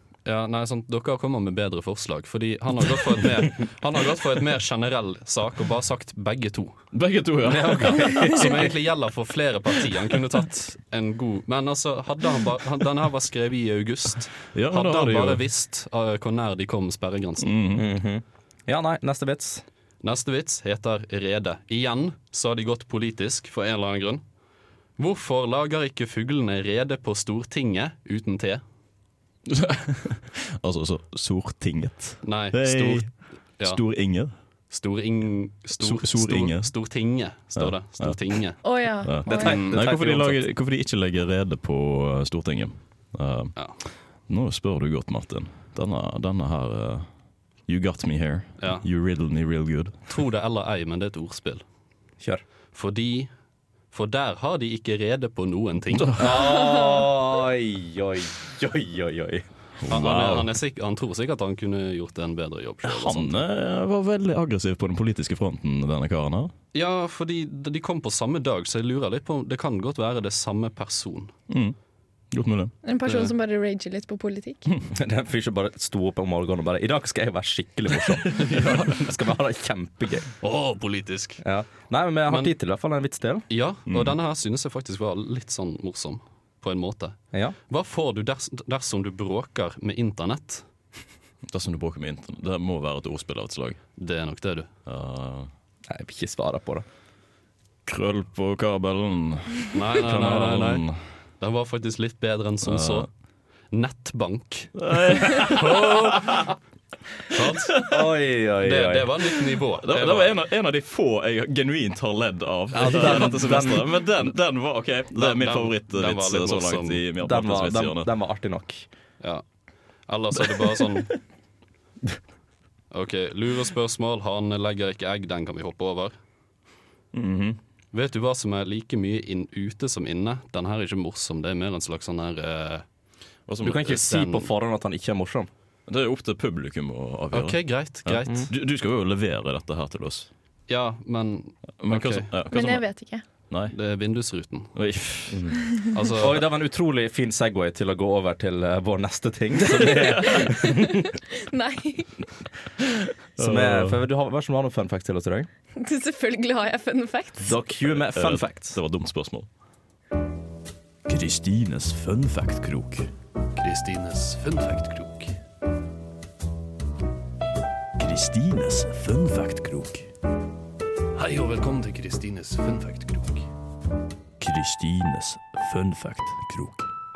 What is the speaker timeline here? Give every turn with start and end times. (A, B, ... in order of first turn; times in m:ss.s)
0:00.2-0:06.8 A
0:06.9-0:08.7 B
0:07.4-0:08.6 C
0:08.3-0:17.6 A
0:14.5-0:15.4 B
0:17.4-0:17.9 B
0:17.7-0:19.6 C
0:20.0-0:24.2 A
0:25.0-0:28.6 A
0:29.5-0:34.3 B
0:32.2-0:33.8 A
0:34.7-0:38.6 A
0:35.8-0:36.7 B
0:37.6-0:38.3 B
0:38.6-0:39.6 D
0:39.0-0:43.6 B
0:39.2-0:40.4 C
0:39.3-0:39.9 A
0:44.3-0:47.1 B
0:47.6-0:50.0 B
0:48.6-0:48.8 A
0:50.1-0:51.6 A
0:52.7-0:53.3 A
0:53.9-0:56.2 A
0:56.0-0:56.2 B
0:56.2-0:59.4 C
0:56.7-0:57.0 D
0:59.8-1:00.5 B
0:59.9-1:03.4 A
1:02.8-1:06.5 B
1:06.7-1:11.3 A
1:11.5-1:11.8 B
1:12.3-1:12.7 B
1:12.8-1:14.7 D
1:13.1-1:13.3 A
1:14.9-1:20.3 C
1:18.4-1:19.1 A
1:20.4-1:21.4 A
1:21.4-1:23.5 C
1:22.3-1:22.5 A
1:23.5-1:27.2 A
1:23.9-1:24.2 B
1:27.7-1:30.6 A
1:31.5-1:33.8 B
1:34.0-1:34.7 A
1:34.8-1:35.5 B
1:35.9-1:36.8 C
1:37.9-1:41.0 B
1:39.7-1:40.8 A
1:41.4-1:43.1 A
1:42.6-1:43.1 B
1:43.7-1:46.5 A
1:44.8-1:46.5 B
1:47.3-1:48.0 A
1:47.4-1:48.0 B
1:47.9-1:49.2 C
1:48.6-1:50.4 A
1:49.8-1:58.1 B
1:52.7-1:54.0 C
1:55.1-1:57.0 A
1:57.2-1:58.9 C
2:00.1-2:01.2 A
2:02.9-2:06.1 A
2:07.1-2:07.6 B
2:07.9-2:12.8 A
2:13.5-2:13.8 B
2:13.6-2:15.5 C
2:13.6-2:14.5 A
2:15.9-2:20.3 B
2:17.3-2:18.5 A
2:20.7-2:22.3 A
2:21.8-2:22.8 B
2:22.5-2:23.2 D
2:23.5-2:23.7 B
2:23.7-2:24.8 A
2:24.7-2:25.6 B
2:25.3-2:25.6 C
2:25.9-2:26.4 A
2:26.1-2:31.2 C
2:29.7-2:30.5 B
2:30.5-2:32.1 D
2:33.4-2:34.0 B
2:33.4-2:35.5 C
2:35.8-2:37.5 D
2:37.4-2:38.8 C
2:38.0-2:39.5 B
2:41.1-2:43.1 B
2:43.6-2:45.3 A
2:48.0-2:50.1 B
2:51.2-2:53.5 A
2:54.4-2:56.9 B